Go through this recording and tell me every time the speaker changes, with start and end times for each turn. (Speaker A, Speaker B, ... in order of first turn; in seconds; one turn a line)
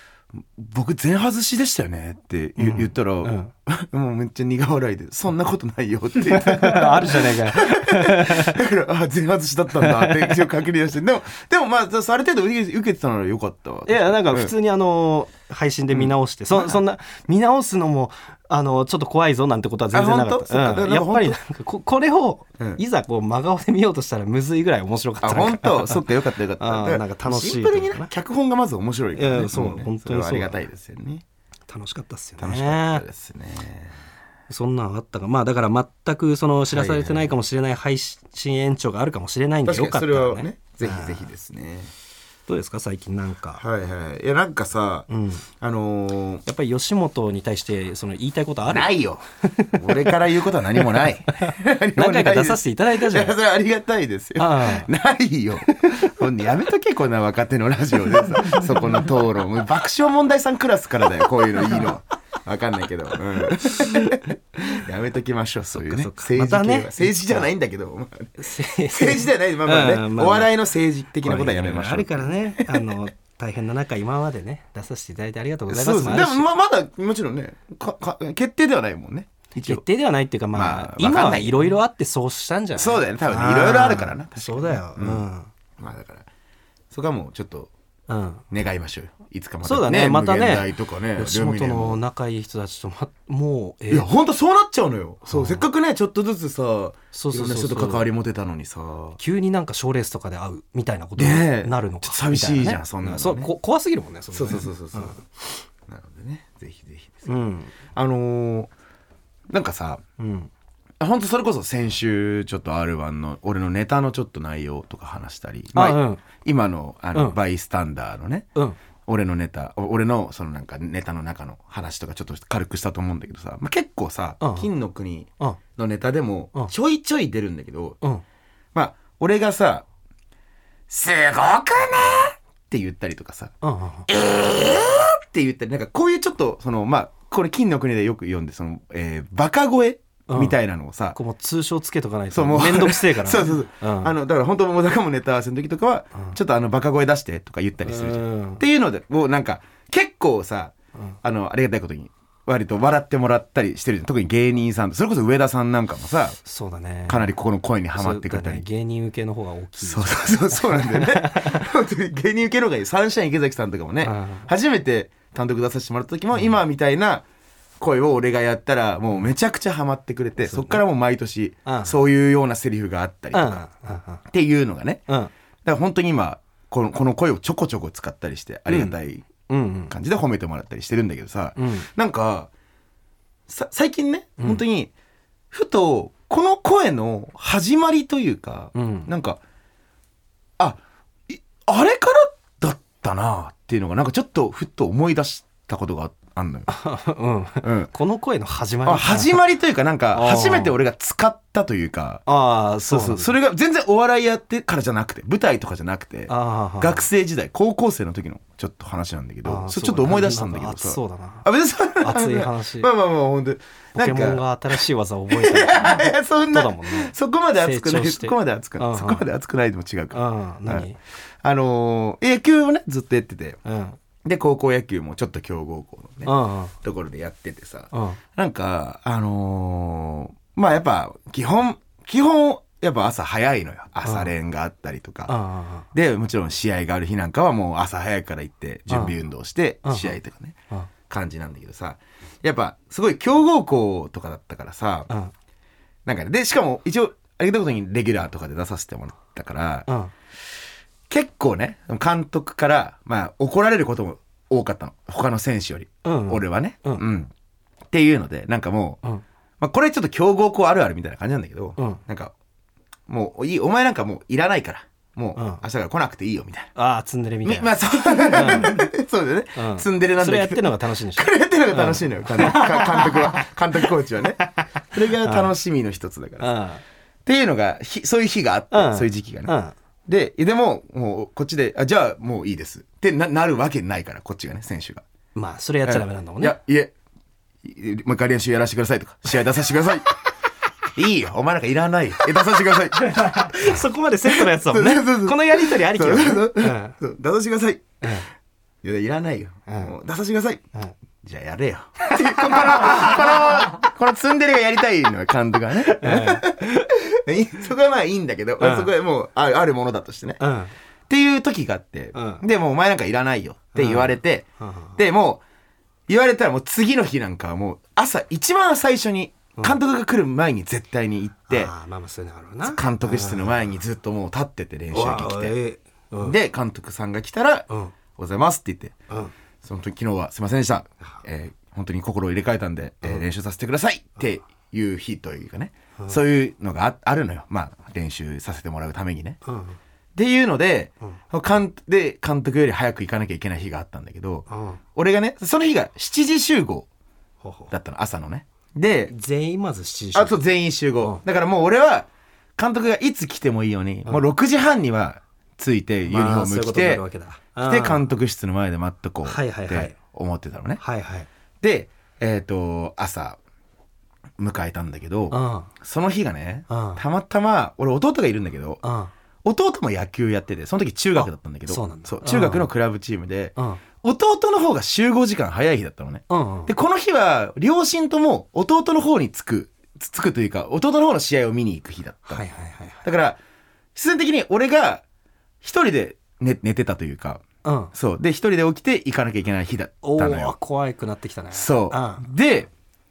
Speaker A: 0.4-14.5
Speaker B: 2.6-3.5
Speaker B: 6.2-8.6
Speaker B: 9.8-10.5
Speaker B: 13.9-26.0
Speaker A: 15.9-16.8
Speaker A: 19.9-21.4
Speaker A: 25.2-31.2
Speaker B: 26.6-28.1
Speaker B: 29.1-30.6
Speaker B: 31.7-33.0
Speaker A: 32.4-33.9
Speaker B: 34.5-41.3
Speaker A: 36.7-37.3
Speaker A: 39.6-41.9
Speaker B: 42.5-43.6
Speaker A: 43.6-45.1
Speaker B: 45.1-45.5
Speaker A: 45.6-46.4
Speaker B: 46.4-48.9
Speaker A: 48.7-49.2
Speaker B: 49.4-50.2
Speaker A: 49.7-68.3
Speaker B: 50.8-53.4
Speaker B: 54.4-54.9
Speaker B: 55.7-56.1
Speaker B: 63.7-64.2
Speaker B: 65.7-67.5
Speaker B: 68.4-70.5
Speaker A: 68.9-73.0
Speaker B: 71.2-76.5
Speaker A: 75.7-79.8
Speaker B: 79.6-85.5
Speaker A: 80.5-81.8
Speaker A: 82.8-85.2
Speaker A: 85.8-86.3
Speaker A: 86.9-87.7
Speaker B: 88.1-88.4
Speaker A: 88.5-92.0
Speaker B: 89.6-94.1
Speaker A: 93.9-99.2
Speaker B: 95.2-95.7
Speaker B: 97.1-98.1
Speaker B: 99.2-105.2
Speaker A: 101.2-103.5
Speaker A: 104.3-107.3
Speaker B: 107.3-107.7
Speaker A: 107.9-108.7
Speaker A: 109.5-110.0
Speaker B: 110.2-110.5
Speaker A: 111.0-118.5
Speaker B: 115.7-116.2
Speaker A: 119.1-128.0
Speaker B: 124.4-124.7
Speaker A: 128.7-129.8
Speaker A: 130.9-133.5
Speaker B: 133.6-134.1
Speaker A: 134.1-141.2
Speaker B: 140.3-140.6
Speaker B: 141.1-144.1
Speaker A: 142.3-156.4
Speaker B: 147.8-148.6
Speaker B: 156.4-157.3
Speaker A: 157.1-158.6
Speaker B: 158.0-161.6
Speaker A: 159.8-167.2
Speaker B: 164.0-164.5
Speaker A: 167.8-173.6
Speaker B: 170.4-170.8
Speaker B: 171.7-171.9
Speaker B: 173.3-174.2
Speaker A: 174.3-175.0
Speaker A: 175.6-179.3
Speaker B: 178.7-178.9
Speaker B: 179.4-179.9
Speaker A: 179.9-182.5
Speaker B: 181.6-181.9
Speaker A: 183.5-184.9
Speaker A: 185.5-189.4
Speaker B: 188.7-189.1
Speaker A: 190.6-196.7
Speaker B: 196.7-199.4
Speaker A: 197.6-197.9
Speaker A: 198.8-202.2
Speaker B: 200.1-200.7
Speaker B: 202.2-203.3
Speaker A: 202.9-214.4
Speaker B: 206.3-207.1
Speaker B: 209.4-211.4
Speaker B: 212.0-212.9
Speaker B: 213.9-219.2
Speaker A: 215.3-220.9
Speaker B: 220.1-221.0
Speaker A: 221.4-223.6
Speaker B: 223.6-224.0
Speaker A: 224.2-235.3
Speaker B: 226.2-226.7
Speaker B: 227.9-228.2
Speaker B: 234.0-234.3
Speaker B: 235.3-235.9
Speaker A: 235.9-240.6
Speaker B: 238.9-239.1
Speaker B: 239.8-240.1
Speaker A: 241.1-245.1
Speaker A: 246.1-249.9
Speaker A: 251.1-257.3
Speaker B: 256.0-257.0
Speaker A: 257.9-259.0
Speaker A: 259.6-262.3
Speaker B: 261.8-262.0
Speaker A: 263.1-266.7
Speaker B: 265.4-265.6
Speaker B: 266.8-268.9
Speaker A: 267.4-276.5
Speaker B: 269.6-273.4
Speaker B: 275.2-275.5
Speaker B: 276.4-276.8
Speaker A: 277.2-279.5
Speaker B: 278.7-279.7
Speaker A: 280.1-285.0
Speaker B: 285.3-286.6
Speaker A: 285.8-286.9
Speaker A: 287.6-290.1
Speaker A: 290.9-297.9
Speaker B: 293.1-297.0
Speaker B: 298.0-298.3
Speaker A: 298.8-300.6
Speaker B: 299.7-299.9
Speaker A: 301.2-310.4
Speaker B: 302.1-303.2
Speaker B: 305.9-306.9
Speaker B: 308.6-308.9
Speaker B: 310.4-310.7
Speaker A: 311.1-314.4
Speaker B: 312.1-312.4
Speaker B: 313.7-315.0
Speaker A: 315.0-315.4
Speaker A: 316.1-321.7
Speaker B: 321.5-323.6
Speaker A: 322.6-325.6
Speaker B: 324.9-326.4
Speaker A: 326.2-328.9
Speaker A: 329.6-339.4
Speaker B: 339.4-339.8
Speaker A: 340.1-346.9
Speaker B: 344.5-344.8
Speaker B: 347.4-347.7
Speaker A: 347.7-349.1
Speaker B: 349.1-350.4
Speaker A: 350.1-357.0
Speaker B: 356.1-358.1
Speaker A: 357.6-360.8
Speaker B: 359.2-359.9
Speaker B: 360.8-361.3
Speaker A: 361.6-363.4
Speaker A: 364.4-368.8
Speaker B: 365.3-365.7
Speaker B: 366.7-367.0
Speaker B: 368.8-369.1
Speaker A: 369.4-382.4
Speaker B: 371.2-372.7
Speaker B: 373.6-373.8
Speaker B: 376.3-376.7
Speaker B: 382.3-383.0
Speaker A: 383.0-383.4
Speaker A: 383.9-385.0
Speaker A: 385.6-390.5
Speaker B: 387.6-387.9
Speaker B: 390.0-392.2
Speaker A: 391.5-392.7